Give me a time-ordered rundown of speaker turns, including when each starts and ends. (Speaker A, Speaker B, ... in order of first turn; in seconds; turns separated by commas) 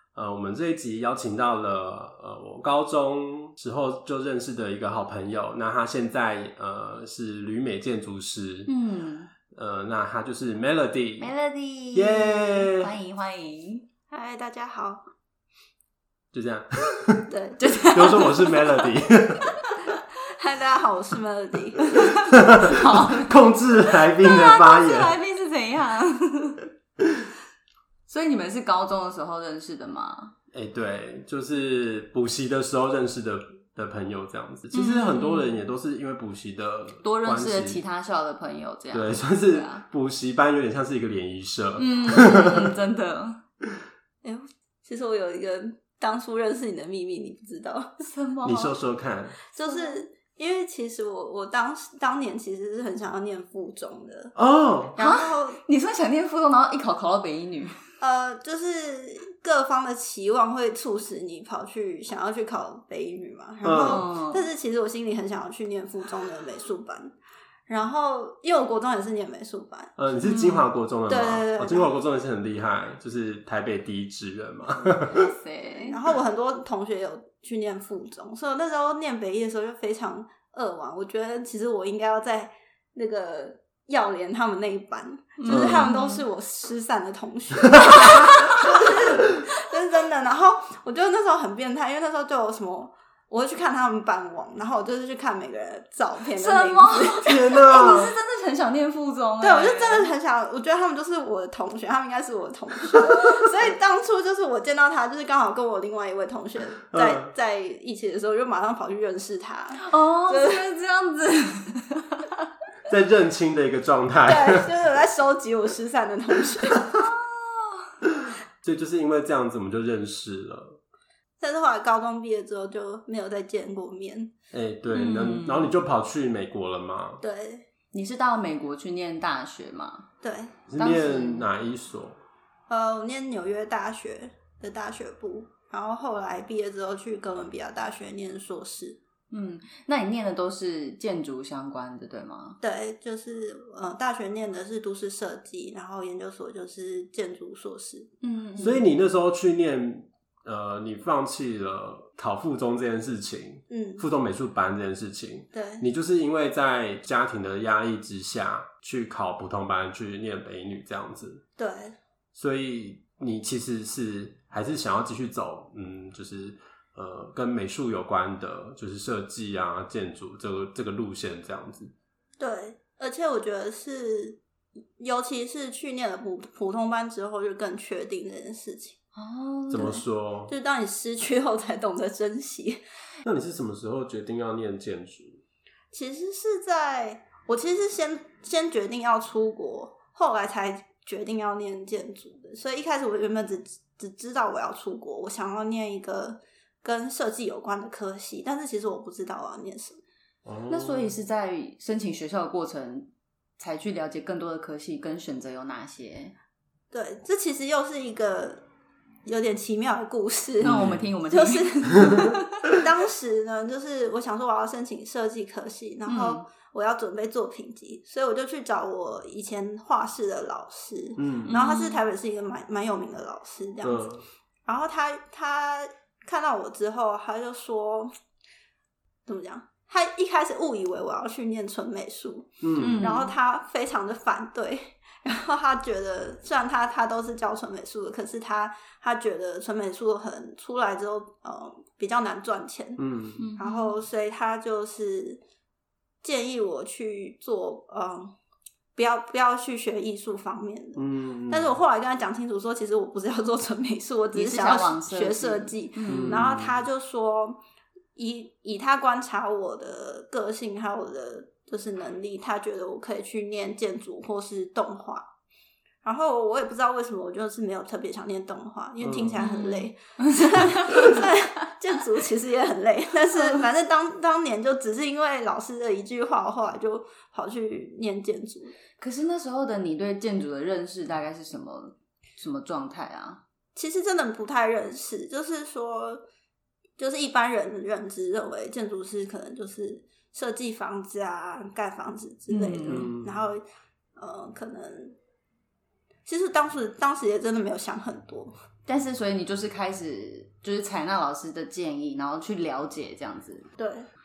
Speaker A: 0.1-8.7, Speaker B: 8.7-9.3, Speaker A: 9.5-11.3, Speaker B: 11.2-13.9, Speaker A: 11.9-12.9, Speaker C: 14.1-15.1, Speaker A: 16.3-19.5, Speaker C: 17.3-17.6, Speaker B: 17.6-18.9, Speaker B: 19.5-19.8, Speaker C: 20.3-21.9, Speaker B: 22.0-23.3, Speaker A: 22.1-25.2, Speaker B: 23.9-26.7, Speaker B: 28.1-30.3, Speaker A: 30.5-37.8, Speaker B: 34.7-35.6, Speaker B: 37.0-39.9, Speaker A: 38.9-42.7, Speaker B: 41.8-43.4, Speaker C: 44.2-48.0, Speaker B: 48.0-48.7, Speaker A: 48.4-49.4, Speaker C: 49.5-54.3, Speaker B: 49.6-50.0, Speaker A: 54.4-55.0, Speaker C: 55.0-55.6, Speaker B: 55.0-57.8, Speaker C: 58.0-67.2, Speaker A: 63.6-64.0, Speaker B: 63.8-64.5, Speaker C: 67.7-69.9, Speaker A: 70.0-75.3, Speaker B: 70.2-70.7, Speaker C: 71.1-71.9, Speaker B: 74.9-76.0, Speaker C: 75.8-97.4, Speaker B: 85.4-86.2, Speaker A: 85.5-85.9, Speaker A: 87.7-88.3, Speaker B: 87.9-88.7, Speaker B: 96.3-100.1, Speaker A: 97.2-98.2, Speaker C: 99.4-110.6, Speaker A: 106.9-107.3, Speaker B: 109.8-112.3, Speaker A: 112.9-114.7, Speaker C: 114.3-116.8, Speaker B: 117.0-117.9, Speaker A: 118.1-120.8, Speaker C: 121.4-124.3, Speaker A: 124.5-127.2, Speaker B: 124.9-125.7, Speaker C: 127.2-127.7, Speaker B: 127.9-130.1, Speaker C: 130.2-130.6, Speaker A: 130.7-132.2, Speaker B: 130.8-131.5, Speaker C: 132.7-139.0, Speaker B: 139.3-142.6, Speaker C: 142.6-148.1, Speaker B: 148.2-148.8, Speaker A: 148.6-161.4, Speaker C: 153.7-154.0, Speaker C: 155.5-155.8, Speaker C: 161.6-162.0, Speaker A: 162.3-171.9, Speaker C: 172.4-174.4, Speaker C: 175.0-179.0, Speaker B: 179.2-180.0, Speaker A: 179.7-180.5, Speaker C: 180.5-182.8, Speaker A: 183.2-185.4, Speaker C: 185.9-200.0, Speaker A: 200.4-201.2, Speaker B: 200.7-206.3, Speaker C: 206.9-208.6, Speaker C: 209.2-224.0, Speaker A: 210.6-211.1, Speaker B: 210.6-212.7, Speaker B: 216.1-216.4, Speaker A: 221.2-221.6, Speaker B: 221.5-222.1, Speaker A: 223.8-224.2, Speaker C: 224.7-228.1, Speaker C: 229.3-243.0, Speaker A: 232.6-233.1, Speaker B: 232.8-233.3, Speaker A: 243.0-243.4, Speaker B: 243.4-243.9, Speaker C: 243.6-245.4, Speaker C: 246.2-248.3, Speaker C: 248.9-257.6, Speaker A: 251.0-251.8, Speaker B: 254.3-256.4, Speaker A: 256.1-256.8, Speaker C: 258.2-265.3, Speaker C: 266.0-278.7, Speaker A: 269.0-269.4, Speaker B: 269.4-271.3, Speaker B: 273.3-273.6, Speaker B: 279.0-283.4, Speaker C: 283.8-286.2, Speaker C: 287.0-293.6, Speaker B: 292.5-293.1, Speaker A: 292.9-293.4, Speaker C: 294.2-295.2, Speaker C: 296.3-298.5, Speaker B: 298.9-303.7, Speaker C: 303.8-304.1